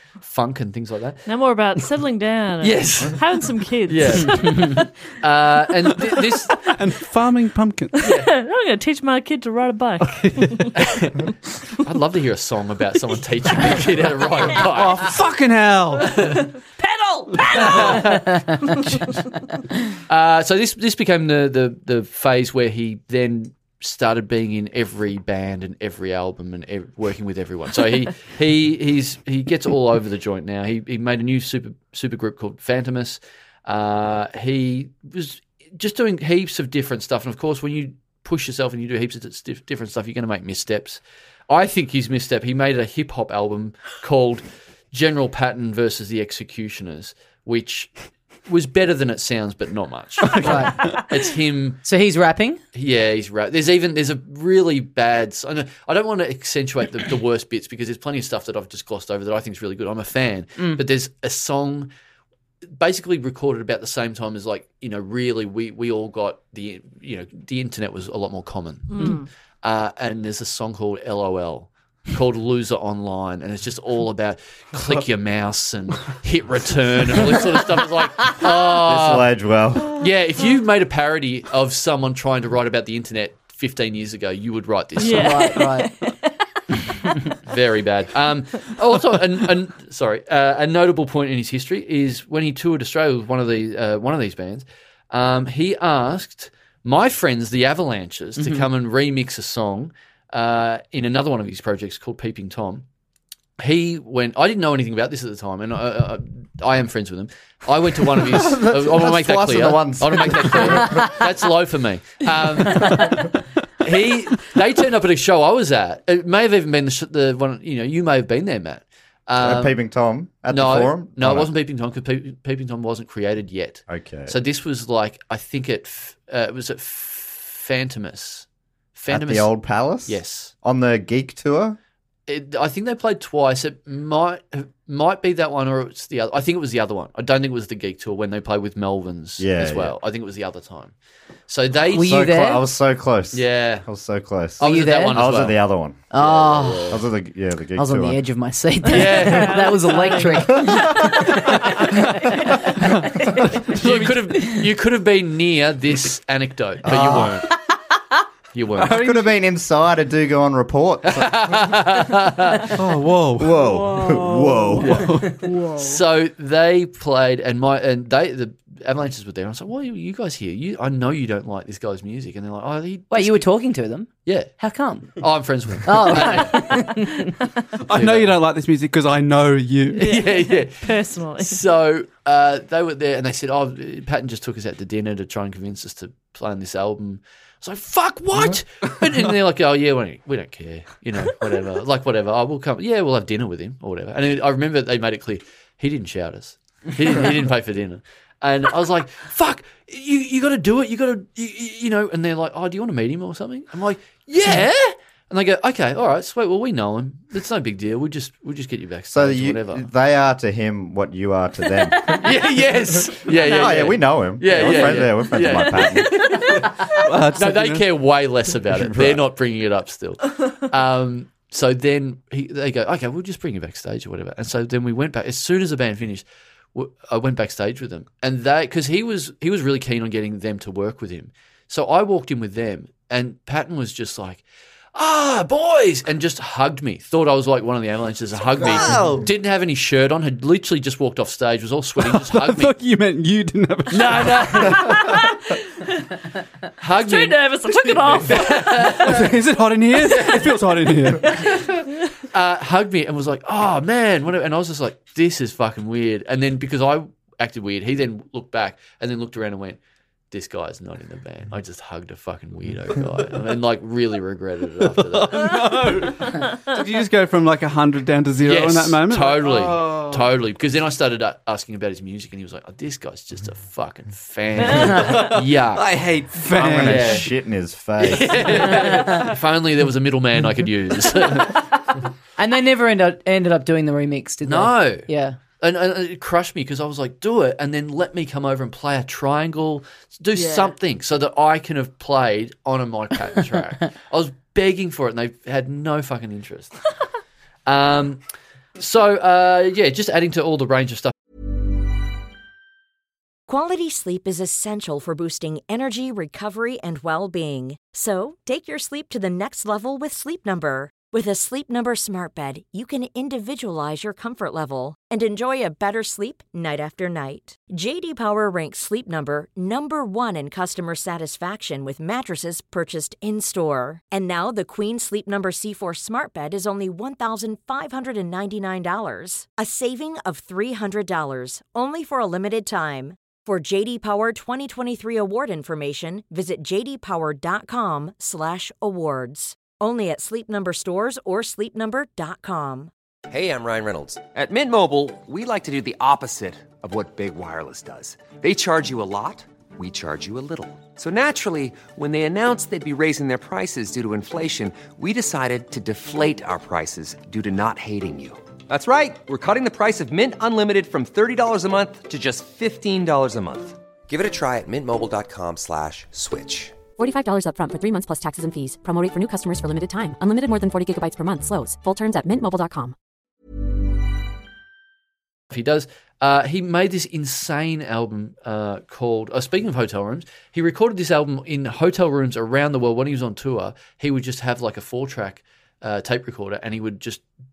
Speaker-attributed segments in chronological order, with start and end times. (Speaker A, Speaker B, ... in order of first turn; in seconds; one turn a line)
Speaker A: 0.2-1.3
Speaker B: 1.3-4.8
Speaker A: 2.6-6.6
Speaker C: 6.7-8.0
Speaker B: 8.0-10.8
Speaker A: 8.0-8.3
Speaker C: 10.0-10.5
Speaker A: 10.8-11.3
Speaker A: 11.8-15.1
Speaker C: 14.6-16.2
Speaker B: 16.0-19.1
Speaker A: 16.1-16.5
Speaker A: 17.5-18.5
Speaker A: 20.1-47.9
Speaker A: 48.5-51.9
Speaker D: 50.3-50.9
Speaker D: 51.9-52.6
Speaker A: 52.7-61.9
Speaker A: 62.7-79.3
Speaker B: 68.9-69.3
Speaker E: 78.5-80.1
Speaker A: 79.9-85.7
Speaker B: 85.0-86.1
Speaker D: 85.1-85.9
Speaker A: 87.5-102.8
Speaker D: 98.4-98.7
Speaker A: 103.6-113.3
Speaker E: 108.1-111.2
Speaker A: 113.8-119.8
Speaker E: 119.4-121.5
Speaker A: 120.5-129.5
Speaker E: 123.9-124.3
Speaker E: 129.1-131.8
Speaker A: 130.1-130.5
Speaker A: 132.3-140.9
Speaker E: 139.4-140.0
Speaker A: 141.5-142.2
Speaker D: 141.9-142.6
Speaker E: 141.9-146.0
Speaker A: 143.3-143.9
Speaker A: 144.6-145.6
Speaker D: 144.6-145.2
Speaker D: 146.1-146.9
Speaker A: 146.1-147.0
Speaker E: 146.9-148.2
Speaker D: 147.8-151.8
Speaker A: 148.9-150.1
Speaker B: 149.0-151.3
Speaker C: 152.8-154.3
Speaker A: 153.7-157.5
Speaker E: 156.8-157.4
Speaker A: 158.5-159.0
Speaker C: 158.8-159.3
Speaker E: 158.8-161.8
Speaker A: 161.0-162.7
Speaker C: 162.8-165.4
Speaker E: 163.4-165.1
Speaker B: 163.6-164.6
Speaker A: 164.8-165.2
Speaker B: 165.4-166.0
Speaker A: 165.8-173.5
Speaker D: 173.1-175.1
Speaker A: 174.3-174.6
Speaker A: 175.2-176.9
Speaker D: 175.8-177.2
Speaker C: 177.8-180.0
Speaker A: 177.9-178.4
Speaker B: 179.9-181.6
Speaker A: 180.0-209.9
Speaker E: 209.1-212.2
Speaker A: 212.2-234.4
Speaker B: 213.3-213.9
Speaker E: 213.4-216.2
Speaker B: 214.6-216.9
Speaker C: 217.0-217.8
Speaker E: 218.7-219.2
Speaker A: 234.9-242.8
Speaker E: 238.6-239.1
Speaker C: 238.7-239.2
Speaker C: 242.0-244.8
Speaker A: 243.9-245.3
Speaker B: 244.7-246.0
Speaker A: 246.8-249.3
Speaker B: 247.0-249.0
Speaker C: 249.0-251.3
Speaker A: 249.9-251.7
Speaker B: 251.2-251.8
Speaker A: 252.3-259.8
Speaker A: 260.3-265.6
Speaker C: 264.9-270.2
Speaker A: 268.4-276.0
Speaker B: 274.6-275.3
Speaker C: 274.9-277.2
Speaker E: 276.5-278.6
Speaker A: 276.8-277.3
Speaker A: 278.0-281.7
Speaker D: 282.4-285.4
Speaker A: 284.4-285.1
Speaker A: 285.6-296.9
Speaker B: 290.4-290.7
Speaker A: 297.7-298.2
Speaker A: 298.8-301.1
Speaker F: 303.5-342.9
Speaker G: 343.3-366.8
Speaker H: 367.0-372.9
Speaker A: 375.5-387.2